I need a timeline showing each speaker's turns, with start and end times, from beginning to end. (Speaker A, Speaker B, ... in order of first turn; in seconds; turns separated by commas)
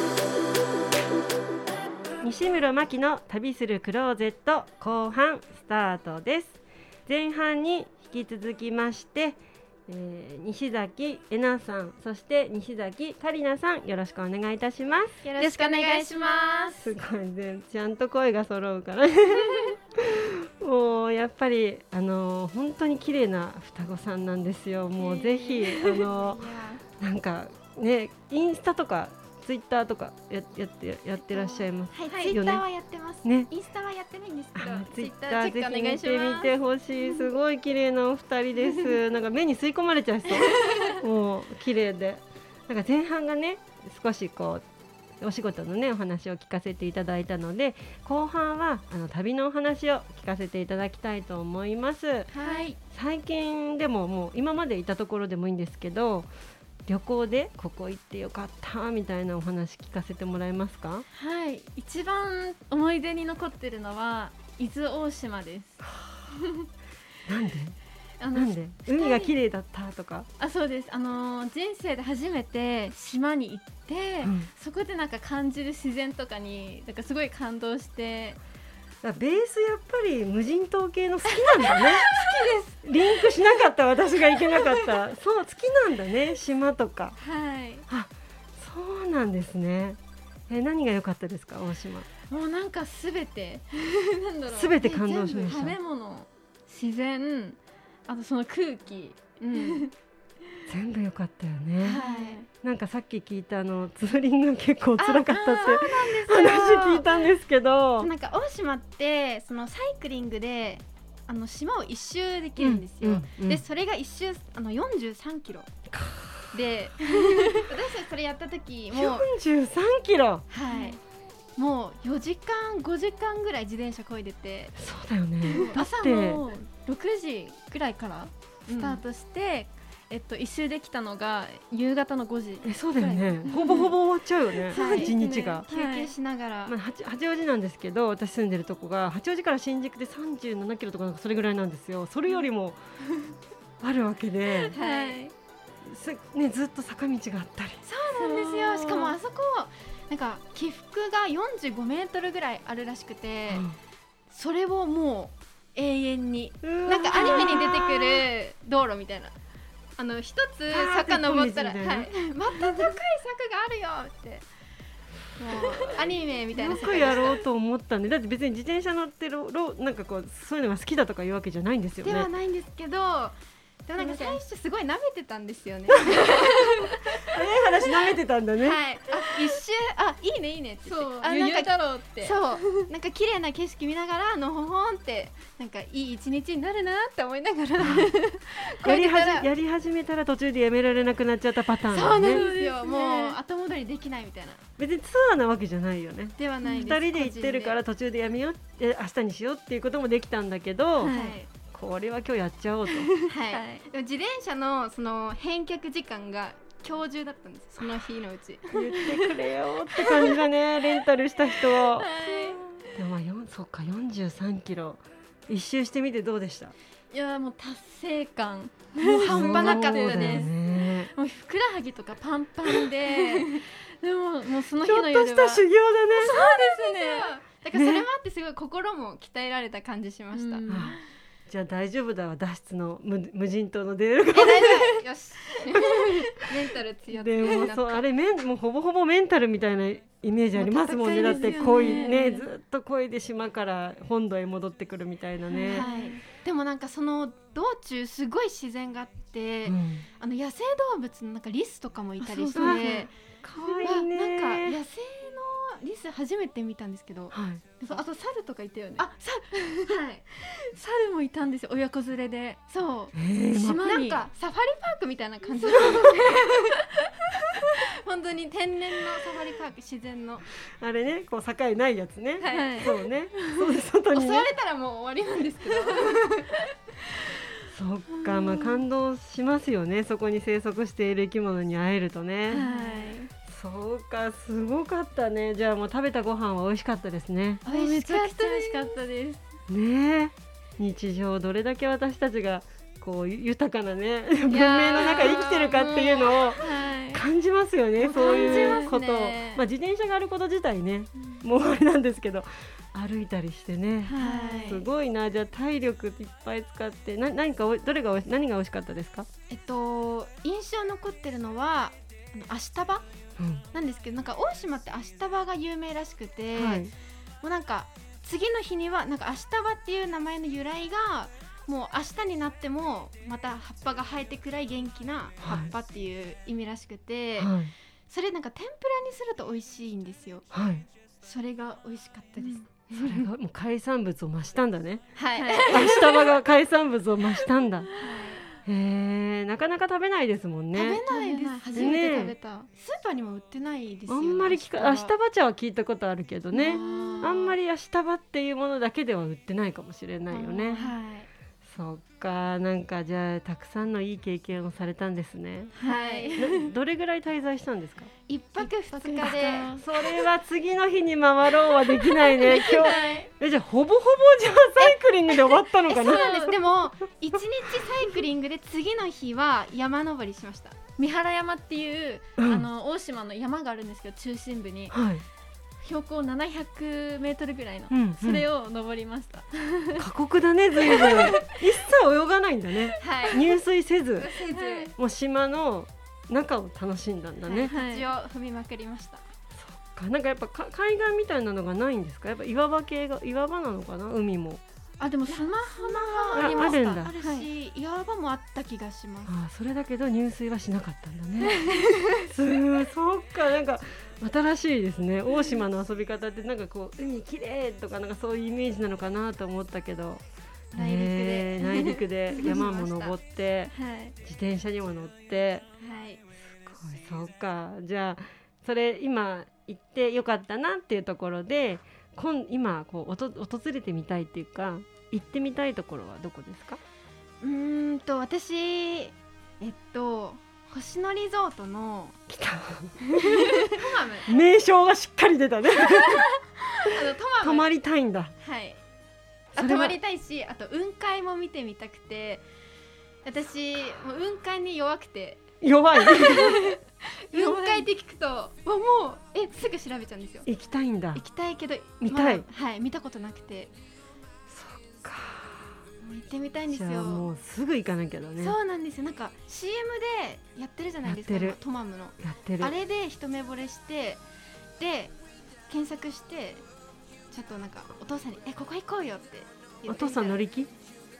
Speaker A: 2.2-15.2, Speaker B: 15.2-16.7, Speaker C: 15.4-16.9, Speaker A: 16.8-26.4, Speaker C: 25.0-26.1, Speaker B: 25.6-26.8, Speaker A: 27.0-32.6, Speaker B: 31.9-36.5, Speaker A: 33.2-33.5, Speaker A: 34.5-44.6, Speaker C: 40.5-41.0, Speaker A: 45.2-52.3, Speaker B: 52.3-52.7, Speaker C: 52.4-52.7, Speaker A: 52.9-56.3, Speaker A: 56.9-61.0, Speaker C: 61.1-66.7, Speaker A: 67.3-67.8, Speaker C: 68.2-69.3, Speaker A: 68.3-70.3, Speaker C: 70.4-78.4, Speaker A: 74.2-74.5, Speaker A: 79.0-82.3, Speaker C: 81.3-83.4, Speaker A: 82.8-87.2, Speaker C: 84.4-84.9, Speaker C: 87.2-87.8, Speaker A: 87.9-92.1, Speaker C: 92.3-99.9, Speaker A: 94.5-95.8, Speaker B: 99.4-99.8, Speaker A: 100.7-102.0, Speaker B: 101.8-102.4, Speaker C: 101.8-102.5, Speaker A: 102.6-108.1, Speaker B: 105.0-107.0, Speaker C: 105.3-106.0, Speaker B: 108.0-115.7, Speaker A: 112.6-113.6, Speaker A: 115.9-116.5, Speaker B: 116.5-119.3, Speaker A: 118.9-120.4, Speaker B: 120.5-121.0, Speaker C: 120.7-121.0, Speaker B: 121.6-124.7, Speaker A: 124.8-126.4, Speaker B: 125.5-125.8, Speaker C: 125.5-133.9, Speaker B: 128.7-129.0, Speaker A: 132.6-135.6, Speaker C: 134.7-136.1, Speaker B: 134.7-136.7, Speaker A: 136.7-142.8, Speaker A: 143.8-144.7, Speaker C: 144.6-145.3, Speaker B: 144.7-145.2, Speaker A: 145.8-147.8, Speaker B: 147.8-153.7, Speaker C: 148.2-149.2, Speaker A: 153.5-153.8, Speaker B: 154.3-159.3, Speaker A: 156.6-158.0, Speaker C: 157.1-157.7, Speaker B: 160.0-164.4, Speaker A: 160.7-162.1, Speaker C: 162.6-162.9, Speaker B: 165.4-167.4, Speaker A: 166.5-172.3, Speaker C: 166.7-167.0, Speaker B: 172.0-177.0, Speaker C: 174.0-174.4, Speaker C: 176.3-176.9, Speaker A: 177.2-178.8, Speaker B: 178.6-189.5, Speaker C: 180.8-182.8, Speaker C: 187.8-188.6, Speaker A: 188.8-192.4, Speaker B: 191.9-194.6, Speaker C: 191.9-193.4, Speaker A: 194.8-201.1, Speaker B: 196.4-197.8, Speaker C: 196.6-196.9, Speaker C: 201.0-201.4, Speaker B: 201.0-201.5, Speaker A: 201.7-203.1, Speaker C: 202.9-203.8, Speaker B: 203.3-209.0, Speaker A: 208.7-212.1, Speaker C: 209.0-209.3, Speaker C: 210.0-210.4, Speaker C: 211.7-212.8, Speaker A: 212.9-216.7, Speaker C: 217.1-227.3, Speaker B: 219.0-220.5, Speaker A: 219.2-221.1, Speaker A: 224.8-226.4, Speaker B: 226.2-230.9, Speaker A: 227.7-228.1, Speaker C: 230.3-231.0, Speaker A: 230.7-235.0, Speaker B: 234.3-238.1, Speaker C: 235.8-236.3, Speaker A: 237.1-245.9, Speaker B: 240.5-242.3, Speaker C: 241.0-242.4, Speaker C: 245.5-246.2, Speaker B: 245.7-253.1, Speaker A: 249.7-250.1, Speaker C: 252.2-253.9, Speaker A: 252.5-254.8, Speaker B: 253.8-258.0, Speaker A: 257.3-257.6, Speaker C: 257.9-262.6, Speaker B: 259.0-260.2, Speaker B: 262.7-266.7, Speaker A: 263.1-263.9, Speaker C: 263.5-264.2, Speaker C: 265.6-267.1, Speaker B: 267.7-270.4, Speaker A: 270.8-274.5, Speaker B: 272.4-272.9, Speaker C: 272.5-273.7, Speaker B: 274.1-276.5, Speaker C: 275.9-276.1, Speaker A: 277.7-282.6, Speaker C: 278.1-278.8, Speaker B: 282.5-283.2, Speaker C: 282.5-283.3, Speaker A: 283.5-287.6, Speaker B: 287.6-289.0, Speaker C: 287.6-289.5, Speaker A: 289.7-309.3, Speaker B: 294.5-296.6, Speaker C: 294.5-296.0, Speaker C: 296.6-297.2, Speaker B: 298.0-298.9, Speaker C: 298.1-299.6, Speaker C: 304.1-304.8, Speaker B: 304.1-304.9, Speaker B: 309.5-313.0, Speaker A: 313.4-313.6, Speaker B: 313.7-316.9, Speaker A: 316.5-316.9, Speaker B: 317.4-327.5, Speaker A: 325.4-325.7, Speaker A: 327.4-327.7, Speaker B: 328.1-330.5, Speaker A: 330.5-330.9, Speaker B: 331.2-333.3, Speaker C: 332.4-332.6, Speaker A: 332.9-335.1, Speaker B: 335.1-336.3, Speaker C: 335.4-336.3, Speaker A: 335.6-337.9, Speaker C: 337.4-338.2, Speaker B: 338.0-338.4, Speaker A: 338.6-341.0, Speaker B: 340.7-345.1, Speaker C: 341.1-342.0, Speaker A: 341.7-342.3, Speaker A: 344.1-350.9, Speaker B: 346.5-347.5, Speaker C: 346.5-347.4, Speaker B: 350.4-351.3, Speaker C: 350.6-350.9, Speaker A: 351.6-355.7, Speaker B: 355.8-356.4, Speaker C: 355.8-356.7, Speaker A: 356.3-358.1, Speaker B: 358.3-359.8, Speaker C: 358.6-359.7, Speaker A: 359.2-366.5, Speaker C: 362.0-363.3, Speaker B: 362.7-363.2, Speaker B: 364.8-370.8, Speaker C: 365.9-366.6, Speaker C: 371.0-375.0, Speaker A: 372.4-372.7, Speaker A: 374.9-375.2, Speaker C: 375.8-380.1, Speaker A: 377.9-378.5, Speaker A: 380.0-384.3, Speaker C: 380.8-381.6, Speaker C: 382.9-383.4, Speaker B: 383.0-383.5, Speaker B: 384.2-384.9, Speaker C: 384.5-384.9, Speaker A: 384.9-387.7, Speaker B: 387.4-389.2, Speaker C: 387.7-388.1, Speaker A: 389.5-394.6, Speaker C: 395.0-397.5, Speaker B: 395.3-399.3, Speaker A: 396.3-397.1, Speaker A: 399.3-401.6, Speaker C: 401.4-402.2, Speaker A: 402.2-410.2, Speaker B: 410.7-413.1, Speaker A: 410.7-415.6, Speaker C: 412.4-412.6, Speaker C: 413.7-414.1, Speaker B: 415.8-416.2, Speaker A: 416.5-426.8, Speaker B: 427.4-432.2, Speaker A: 432.3-433.1, Speaker B: 433.1-434.3, Speaker A: 434.2-436.3, Speaker B: 436.8-437.7, Speaker A: 437.4-438.3, Speaker B: 438.4-438.8, Speaker A: 439.5-440.0, Speaker B: 439.5-442.4, Speaker B: 443.2-445.5, Speaker A: 445.6-446.7, Speaker B: 446.0-446.7, Speaker C: 446.3-446.7, Speaker B: 447.3-450.5, Speaker C: 447.4-447.8, Speaker A: 450.5-451.2, Speaker B: 451.1-453.7, Speaker A: 452.0-452.4, Speaker A: 454.5-455.8, Speaker B: 456.0-457.3, Speaker A: 456.7-458.6, Speaker B: 458.4-464.2, Speaker A: 461.0-461.6, Speaker A: 462.2-462.7, Speaker B: 464.8-465.1, Speaker B: 465.7-466.6, Speaker B: 467.3-470.4, Speaker A: 469.9-470.7